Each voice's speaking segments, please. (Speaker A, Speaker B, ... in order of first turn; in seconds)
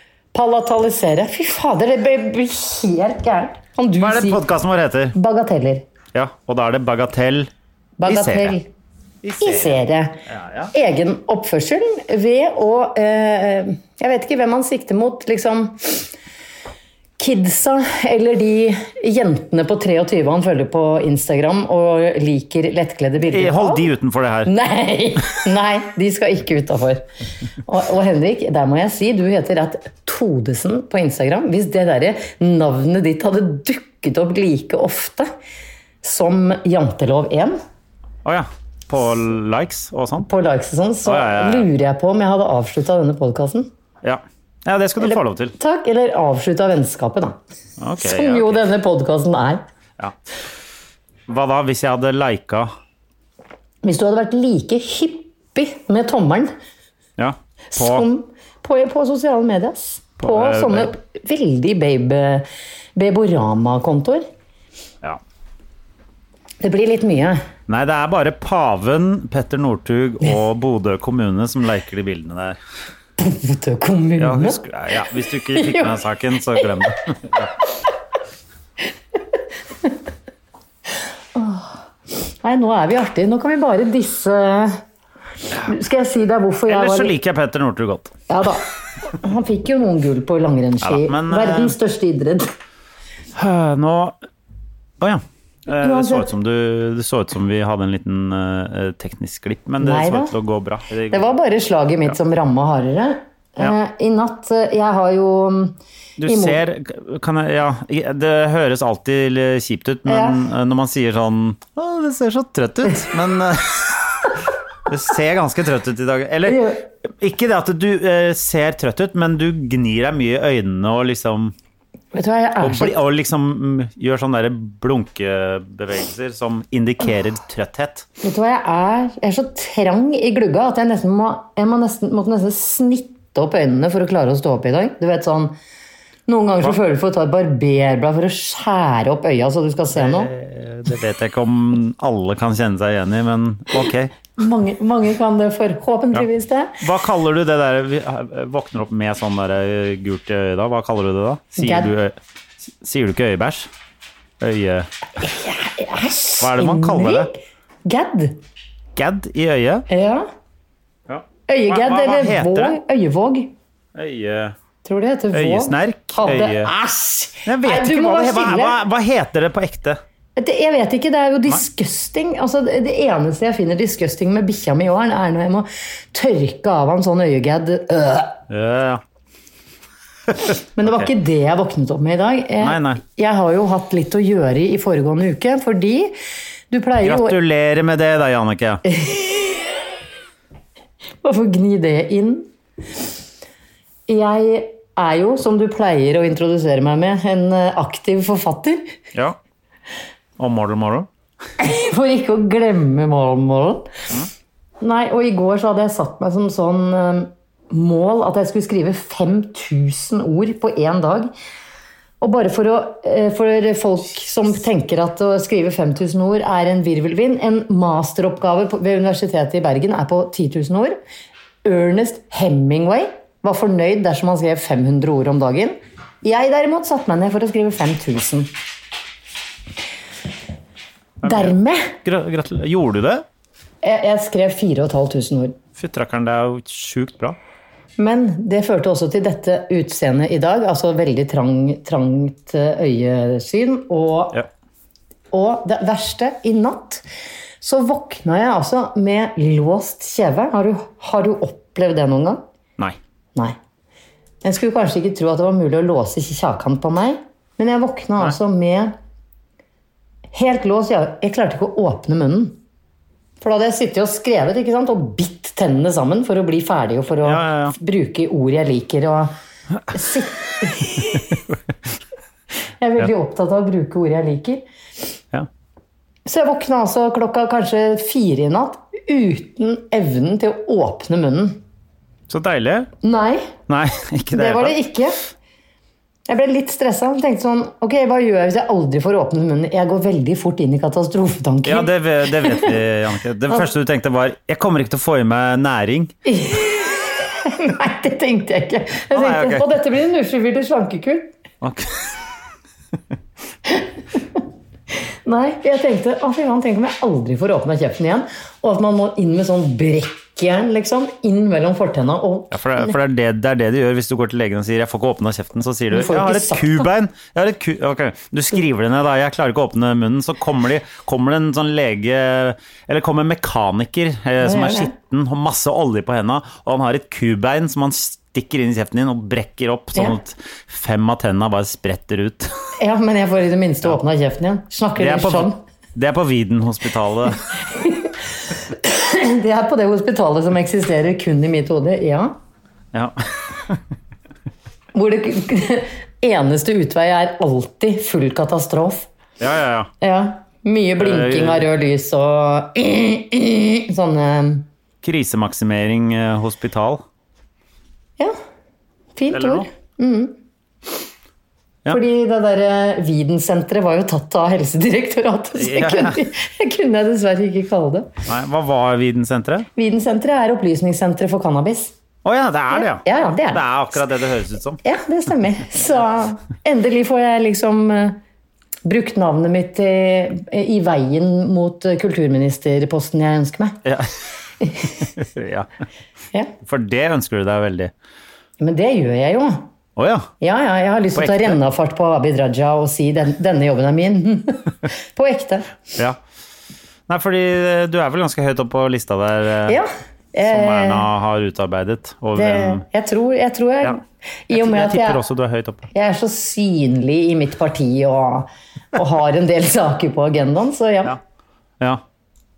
Speaker A: 0.3-4.4, 5.1-5.8, 8.0-8.7, 9.4-16.1, 17.2-23.9, 24.4-27.1, 27.6-35.3, 36.0-37.6, 40.2-43.7, 45.0-47.4, 48.0-49.6, 53.8-56.5, 57.7-64.2, 66.6-67.4, 73.2-74.6, 75.5-76.0, 81.3-81.8, 82.4-84.8, 85.6-87.1, 88.3-92.5, 95.8-96.3, 99.8-100.3, 101.1-106.6, 110.1-110.4, 116.5-116.8, 122.1-123.0, 128.2-135.6, 136.3-140.3, 144.4-146.8, 151.5-151.9, 155.2-158.4, 159.9-160.3, 161.5-163.5, 164.8-168.8, 170.3-178.4, 180.7-186.1, 186.7-187.4, 191.2-192.5, 194.1-198.9, 201.6-203.9, 204.8-211.3, 212.2-221.0, 221.6-228.5, 231.2-231.9, 233.8-235.6, 238.0-244.4, 245.3-247.0, 247.6-252.4, 254.4-258.9, 260.3-262.6, 263.4-269.3, 269.9-271.3, 272.8-274.6, 276.2-281.6, 283.0-283.5, 284.3-285.2, 286.3-292.8, 296.2-301.3, 305.2-312.9, 315.9-316.9, 324.4-324.9, 332.8-335.6, 337.7-342.4, 344.9-349.1, 350.0-354.6, 359.1-360.3, 361.9-368.1, 369.8-371.9, 372.7-373.7, 374.8-378.2, 378.8-383.8, 384.6-385.1, 388.6-389.7, 390.4-395.7, 399.6-401.1, 402.3-405.2, 405.9-411.2
Speaker B: 4.0-5.1, 6.1-7.5, 8.1-8.6, 9.2-10.7, 23.3-24.5, 38.2-40.3, 41.0-41.7, 44.0-45.5, 47.8-48.6, 51.3-52.7, 57.2-58.1, 60.2-61.0, 67.7-72.6, 74.2-77.5, 86.7-88.1, 90.8-91.8, 93.3-94.2, 95.0-101.3, 106.2-114.0, 114.8-121.5, 122.6-128.1, 139.9-144.1, 146.8-153.7, 154.4-154.9, 156.4-157.3, 158.9-159.8, 161.1-162.8, 163.9-164.6, 165.3-166.7, 167.4-170.0, 178.5-179.0, 180.8-181.1, 182.6-183.0, 187.0-188.8, 200.4-201.1, 231.2-233.2, 235.8-237.4, 267.2-267.8, 282.3-282.9, 283.7-284.8, 291.6-296.1, 299.1-299.7, 301.6-302.1, 312.5-332.5, 335.0-337.4, 342.9-343.8, 349.4-349.9, 351.0-351.7, 355.0-357.0, 359.3-359.7, 365.6-366.2, 368.2-369.7, 372.2-374.8, 383.8-384.1, 385.1-385.7, 386.6-387.9, 389.9-390.3, 391.1-391.6, 397.1-399.8, 400.4-402.8, 404.5-405.9